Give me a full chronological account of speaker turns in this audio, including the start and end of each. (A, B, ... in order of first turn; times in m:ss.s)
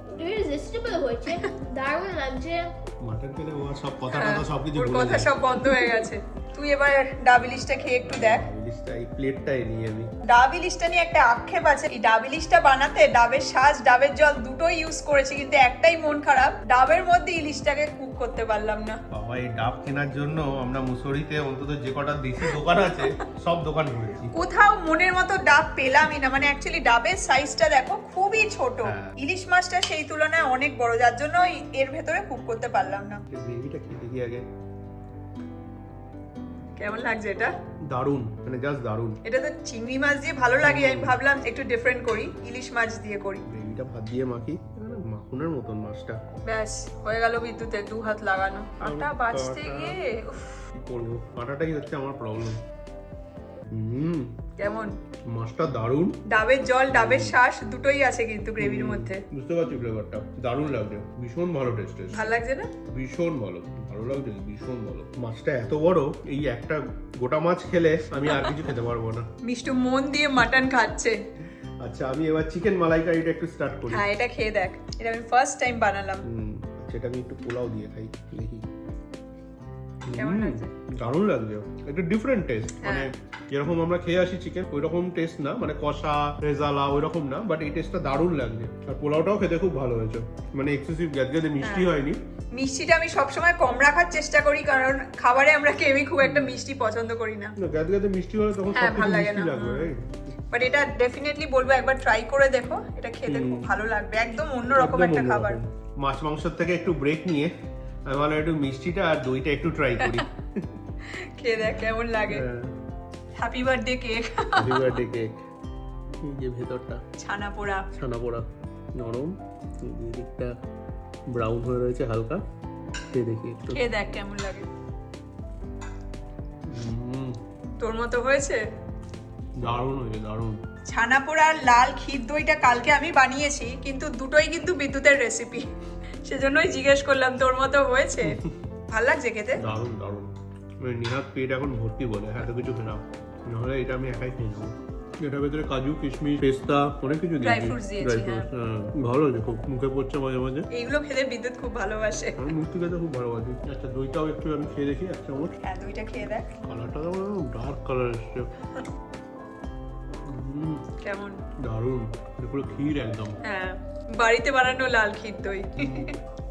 0:00.2-0:02.7 A
0:03.0-0:05.7 B
0:04.1-0:08.4 C
0:08.0-0:10.1 B
0:10.3-0:19.0 C
0:19.1-0:24.3 B
0:24.4-0:33.2 C
0:28.8-0:29.1 B
0:33.3-0:34.4 B
0:36.8-0:37.5 C
0:37.9-0:39.2 B
0:39.2-0:43.4 C
0:40.6-0:41.2 B
0:43.5-0:46.2 B
0:46.4-0:50.6 C
0:48.8-0:50.0 B
0:50.7-0:52.6 B
0:53.7-0:54.3 B
0:54.6-0:54.9 C
0:55.3-0:56.2 B
0:56.3-0:59.2 C
0:56.9-0:57.4 B
0:58.6-1:09.3 B
1:02.1-1:02.7 C
1:09.4-1:11.2 C
1:11.8-1:14.1 B
1:13.9-1:16.2 C
1:16.2-1:18.6 B
1:20.0-1:32.2 B
1:20.2-1:20.7 C
1:22.8-1:23.1 C
1:31.6-1:31.9 C
1:32.5-1:37.5 C
1:36.2-1:36.6 B
1:37.6-1:40.4 B
1:38.7-1:39.9 C
1:40.5-1:45.6 C
1:43.2-1:43.7 B
1:44.7-1:47.5 B
1:48.1-1:50.7 B
1:51.1-1:52.4 C
1:52.2-1:52.7 B
1:53.4-1:54.9 C
1:54.6-1:55.3 B
1:56.2-1:57.0 B
1:57.2-1:57.8 C
1:57.9-2:00.5 B
2:01.3-2:02.4 B
2:03.1-2:03.8 B
2:03.7-2:04.7 C
2:06.7-2:07.4 B
2:07.8-2:08.6 C
2:09.6-2:10.6 B
2:10.9-2:15.7 C
2:16.2-2:18.4 C
2:18.2-2:18.5 B
2:18.9-2:19.6 C
2:19.6-2:30.7 B
2:27.4-2:28.5 C
2:30.7-2:32.4 C
2:32.4-2:35.6 B
2:35.6-2:36.5 C
2:36.6-2:38.5 B
2:40.2-2:40.9 B
2:41.0-2:41.4 C
2:41.6-2:43.4 B
2:43.4-2:46.1 C
2:45.8-2:46.1 B